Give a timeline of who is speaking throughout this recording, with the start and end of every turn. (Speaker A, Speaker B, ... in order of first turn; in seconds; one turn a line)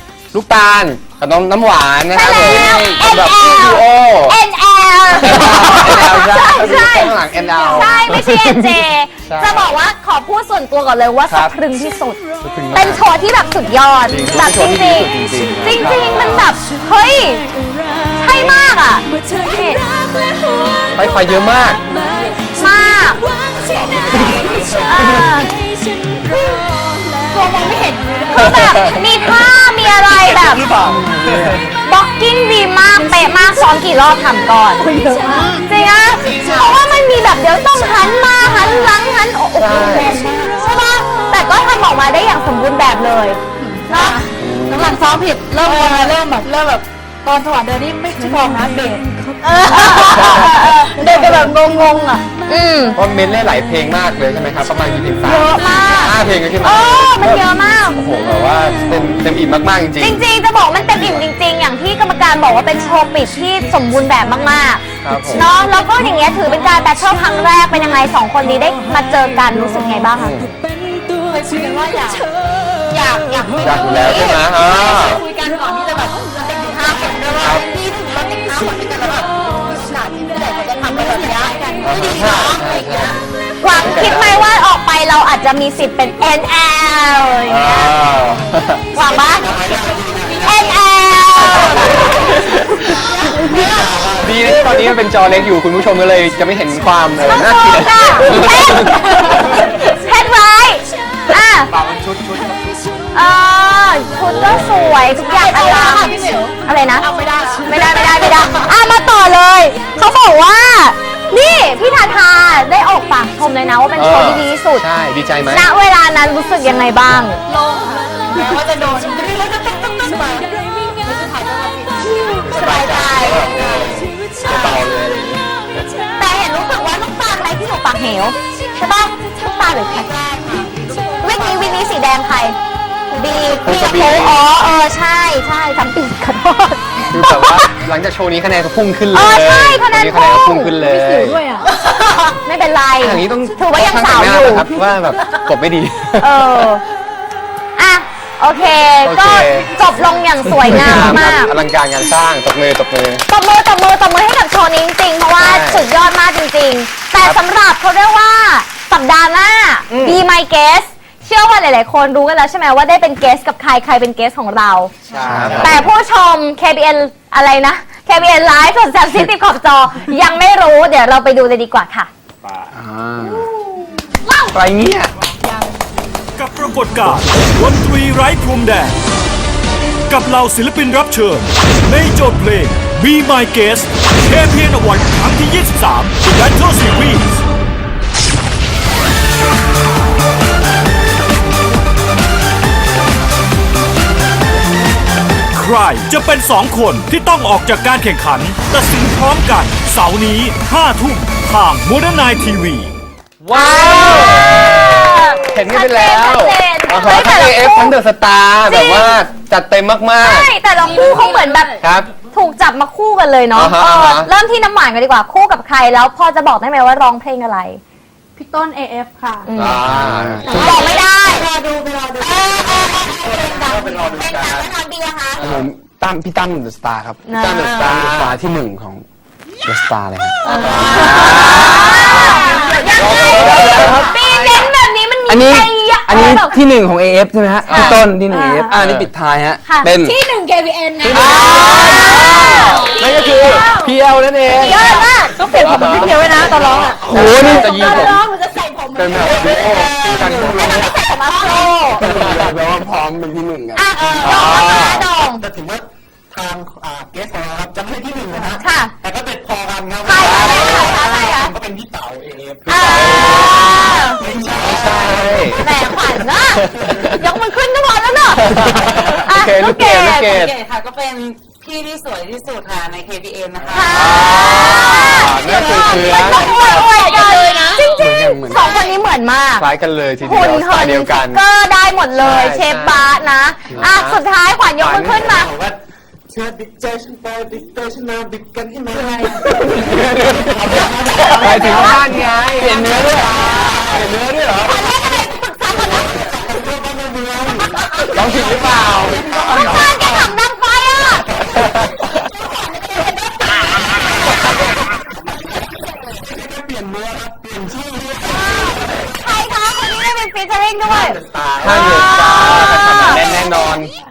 Speaker A: 0.3-4.3
Speaker B: 2.1-12.2
Speaker A: 5.2-9.7
Speaker A: 11.3-11.5
Speaker A: 12.4-13.0
Speaker B: 12.7-17.5
Speaker A: 14.1-16.5
Speaker B: 18.1-19.8
Speaker A: 20.9-21.8
Speaker B: 22.4-23.2
Speaker C: 23.6-24.6
Speaker B: 24.8-25.5
Speaker D: 27.3-28.2
Speaker B: 28.3-30.6
Speaker C: 30.7-31.1
Speaker E: 30.9-31.5
Speaker B: 31.9-34.9
Speaker D: 34.8-35.6
Speaker B: 35.5-44.2
Speaker D: 36.2-36.8
Speaker A: 39.6-40.2
Speaker D: 40.0-40.5
Speaker D: 43.6-52.2
Speaker A: 44.4-45.0
Speaker B: 45.6-46.1
Speaker B: 49.6-51.5
Speaker A: 50.1-50.7
Speaker B: 52.5-53.0
Speaker A: 53.0-60.2
Speaker D: 55.2-56.1
Speaker B: 55.5-58.0
Speaker B: 60.0-70.3
Speaker A: 60.9-61.2
Speaker A: 65.0-65.5
Speaker A: 70.1-70.5
Speaker D: 71.2-72.3
Speaker D: 72.8-83.2
Speaker A: 73.6-75.2
Speaker A: 77.3-77.7
Speaker A: 81.8-84.4
Speaker B: 83.6-87.9
Speaker A: 87.5-88.8
Speaker B: 88.9-89.5
Speaker C: 89.3-90.6
Speaker D: 89.6-90.5
Speaker B: 90.4-91.9
Speaker A: 91.4-92.8
Speaker C: 91.8-92.3
Speaker D: 91.9-92.3
Speaker D: 93.2-93.9
Speaker C: 93.6-94.4
Speaker A: 94.2-99.1
Speaker B: 97.2-101.7
Speaker C: 101.8-102.6
Speaker B: 103.1-107.1
Speaker A: 104.2-105.0
Speaker D: 105.2-108.7
Speaker B: 107.6-114.8
Speaker A: 114.0-115.7
Speaker B: 115.5-117.4
Speaker D: 117.5-124.0
Speaker B: 122.2-123.4
Speaker A: 122.4-125.4
Speaker B: 124.4-124.8
Speaker B: 126.2-130.1
Speaker D: 130.0-131.7
Speaker B: 131.2-132.6
Speaker B: 133.1-137.7
Speaker A: 133.6-134.4
Speaker A: 137.1-141.4
Speaker B: 139.1-140.8
Speaker D: 140.8-141.9
Speaker B: 142.3-144.7
Speaker A: 143.0-146.6
Speaker B: 146.2-146.8
Speaker B: 147.8-151.5
Speaker A: 149.0-149.7
Speaker A: 150.5-153.2
Speaker B: 153.3-164.9
Speaker A: 155.4-155.9
Speaker A: 159.9-160.2
Speaker A: 165.1-165.9
Speaker E: 165.2-165.6
Speaker C: 165.3-165.7
Speaker B: 165.5-172.1
Speaker E: 172.7-173.4
Speaker A: 174.5-175.1
Speaker F: 176.3-179.0
Speaker F: 180.1-187.4
Speaker F: 195.5-202.9
Speaker A: 203.4-210.5
Speaker B: 203.5-207.9
Speaker B: 208.7-209.2
Speaker B: 210.2-217.8
Speaker D: 211.2-211.6
Speaker A: 211.8-212.1
Speaker A: 213.5-214.3
Speaker D: 218.4-219.5
Speaker B: 219.4-219.8
Speaker A: 219.5-220.8
Speaker E: 219.8-220.8
Speaker B: 220.4-221.5
Speaker D: 220.6-222.4
Speaker B: 222.2-225.4
Speaker A: 222.9-224.7
Speaker E: 225.4-229.1
Speaker A: 225.4-225.7
Speaker B: 227.2-227.9
Speaker A: 227.3-228.3
Speaker E: 229.6-232.3
Speaker B: 230.4-236.6
Speaker D: 230.5-231.4
Speaker A: 230.5-234.7
Speaker D: 232.1-232.8
Speaker E: 233.0-234.0
Speaker E: 235.3-240.2
Speaker B: 237.7-238.8
Speaker A: 237.7-238.1
Speaker A: 238.7-239.1
Speaker B: 239.6-239.9
Speaker D: 240.0-243.9
Speaker A: 241.1-248.2
Speaker E: 241.2-242.4
Speaker B: 241.3-242.9
Speaker E: 243.4-243.6
Speaker B: 244.6-245.6
Speaker D: 244.6-251.9
Speaker E: 247.0-247.7
Speaker A: 248.9-250.9
Speaker C: 250.0-250.5
Speaker E: 250.1-250.5
Speaker B: 250.8-252.0
Speaker A: 251.9-252.7
Speaker E: 252.0-253.8
Speaker B: 253.7-255.4
Speaker A: 254.2-255.1
Speaker C: 255.4-265.5
Speaker B: 258.6-258.9
Speaker B: 260.0-261.5
Speaker A: 260.2-261.0
Speaker B: 262.7-264.2
Speaker A: 262.8-263.6
Speaker A: 264.5-265.7
Speaker B: 265.6-268.5
Speaker A: 266.5-267.2
Speaker A: 268.4-270.6
Speaker B: 269.1-270.3
Speaker G: 270.1-274.0
Speaker B: 273.7-279.7
Speaker A: 273.7-276.9
Speaker D: 276.6-276.8
Speaker G: 276.8-278.1
Speaker D: 277.5-277.8
Speaker A: 277.9-278.4
Speaker E: 278.2-278.6
Speaker A: 279.6-281.4
Speaker B: 280.2-285.5
Speaker A: 282.2-283.1
Speaker A: 283.7-284.2
Speaker A: 284.8-285.4
Speaker C: 285.2-289.6
Speaker E: 289.6-290.8
Speaker C: 290.4-292.0
Speaker B: 291.1-292.0
Speaker A: 291.2-293.2
Speaker E: 292.5-293.8
Speaker C: 292.8-294.0
Speaker A: 293.8-294.8
Speaker B: 294.6-296.1
Speaker C: 295.9-298.2
Speaker E: 298.1-300.0
Speaker A: 298.2-299.2
Speaker D: 298.3-298.8
Speaker B: 299.2-301.3
Speaker D: 302.6-303.2
Speaker C: 306.1-308.7
Speaker B: 308.3-311.2
Speaker C: 310.9-311.9
Speaker A: 311.6-313.9
Speaker B: 311.7-313.2